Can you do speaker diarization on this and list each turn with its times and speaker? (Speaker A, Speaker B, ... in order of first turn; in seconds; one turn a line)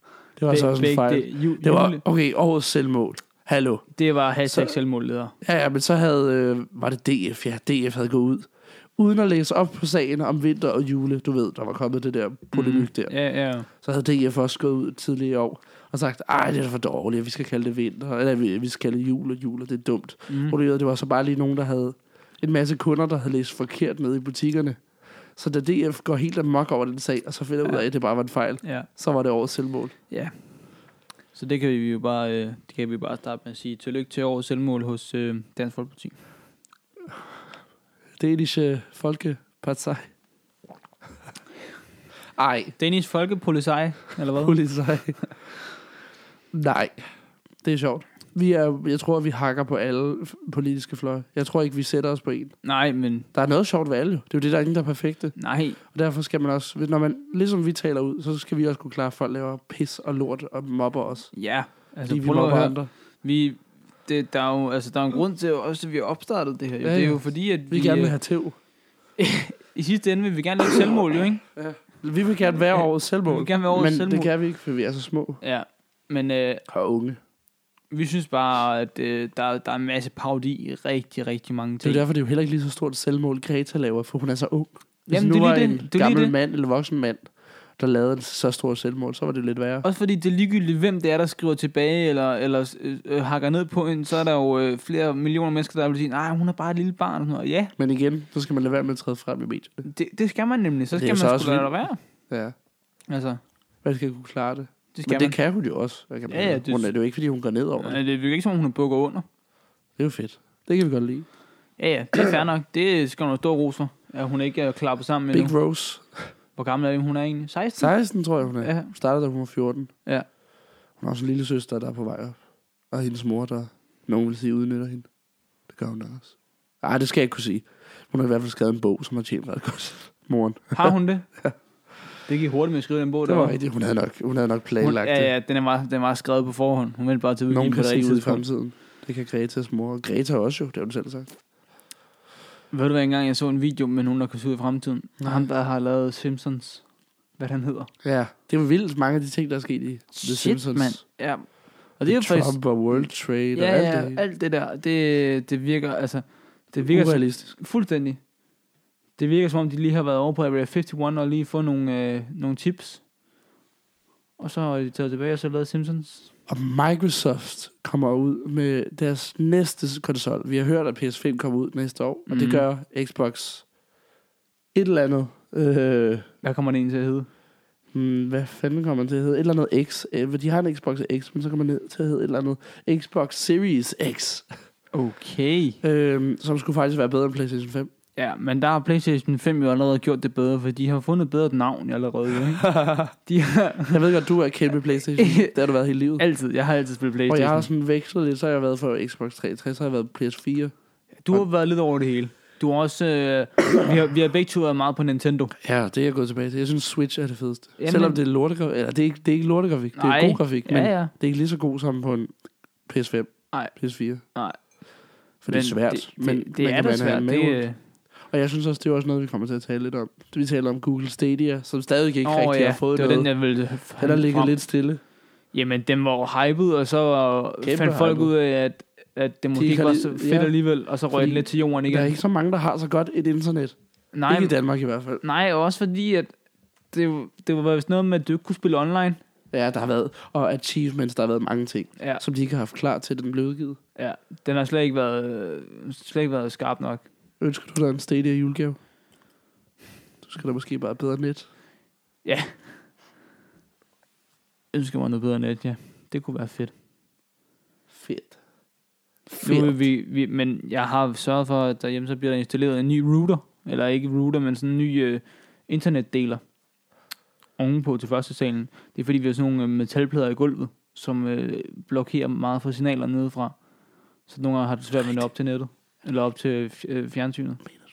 Speaker A: 0.4-3.9
Speaker B: 0.5-2.0
Speaker B: 4.0-5.3
Speaker A: 4.4-4.8
Speaker A: 5.4-13.1
Speaker B: 12.5-13.7
Speaker A: 13.7-24.8
Speaker B: 20.3-20.6
Speaker A: 25.4-29.9
Speaker B: 28.6-28.9
Speaker B: 31.3-36.1
Speaker A: 38.2-40.1
Speaker A: 42.4-42.7
Speaker B: 42.8-44.6
Speaker A: 44.3-45.2
Speaker A: 46.5-47.1
Speaker A: 47.6-52.5
Speaker B: 52.6-53.3
Speaker A: 53.3-55.3
Speaker B: 55.4-55.8
Speaker A: 55.9-61.3
Speaker B: 61.3-68.2
Speaker A: 62.1-62.9
Speaker A: 66.8-68.5
Speaker B: 69.2-71.4
Speaker A: 71.5-75.4
Speaker B: 72.8-74.3
Speaker B: 75.4-76.6
Speaker A: 76.7-77.2
Speaker B: 77.9-82.0
Speaker A: 81.8-89.8
Speaker B: 85.1-86.3
Speaker B: 89.8-97.7
Speaker A: 97.8-99.8
Speaker B: 99.8-102.0
Speaker A: 100.9-101.7
Speaker A: 102.3-102.5
Speaker B: 103.1-103.4
Speaker A: 103.8-108.0
Speaker B: 104.9-105.3
Speaker B: 106.3-106.9
Speaker B: 107.8-109.2
Speaker A: 110.0-111.2
Speaker B: 111.8-115.5
Speaker A: 115.3-116.3
Speaker B: 116.5-117.9
Speaker A: 117.8-119.9
Speaker B: 118.6-118.9
Speaker A: 121.0-122.4
Speaker A: 122.9-125.1
Speaker A: 125.7-131.5
Speaker B: 130.7-131.3
Speaker B: 132.2-133.6
Speaker A: 133.2-135.3
Speaker B: 134.8-138.4
Speaker A: 137.5-141.3
Speaker B: 142.7-146.8
Speaker A: 145.2-145.5
Speaker B: 147.4-147.9
Speaker A: 148.0-151.0
Speaker B: 150.1-158.2
Speaker A: 152.1-154.2
Speaker A: 156.8-157.5
Speaker B: 159.2-163.0
Speaker B: 164.4-166.3
Speaker A: 166.5-173.6
Speaker B: 172.3-172.7
Speaker A: 174.7-176.3
Speaker B: 176.4-177.3
Speaker A: 177.9-184.4
Speaker B: 184.9-185.8
Speaker A: 185.8-187.9
Speaker B: 188.2-192.7
Speaker A: 192.6-193.1
Speaker B: 193.2-194.0
Speaker A: 193.9-196.2
Speaker B: 195.2-195.5
Speaker B: 196.2-197.7
Speaker A: 197.3-200.7
Speaker B: 201.2-205.5
Speaker A: 205.6-212.3
Speaker B: 207.8-208.2
Speaker B: 209.9-211.1
Speaker A: 212.9-214.2
Speaker A: 215.4-217.6
Speaker B: 215.5-217.8
Speaker A: 218.3-223.3
Speaker B: 222.2-224.5
Speaker A: 224.0-225.0
Speaker B: 225.5-232.2
Speaker A: 227.6-228.3
Speaker A: 229.5-230.5
Speaker A: 231.1-233.7
Speaker B: 234.1-234.5
Speaker A: 234.3-235.2
Speaker B: 235.2-236.3
Speaker B: 236.9-239.2
Speaker A: 239.5-243.8
Speaker B: 244.0-247.0
Speaker A: 247.4-248.8
Speaker A: 250.2-251.5
Speaker B: 252.2-252.7
Speaker B: 254.7-256.7
Speaker A: 257.9-258.4
Speaker A: 259.3-259.8
Speaker B: 259.4-266.4
Speaker B: 267.6-273.6
Speaker B: 274.3-277.6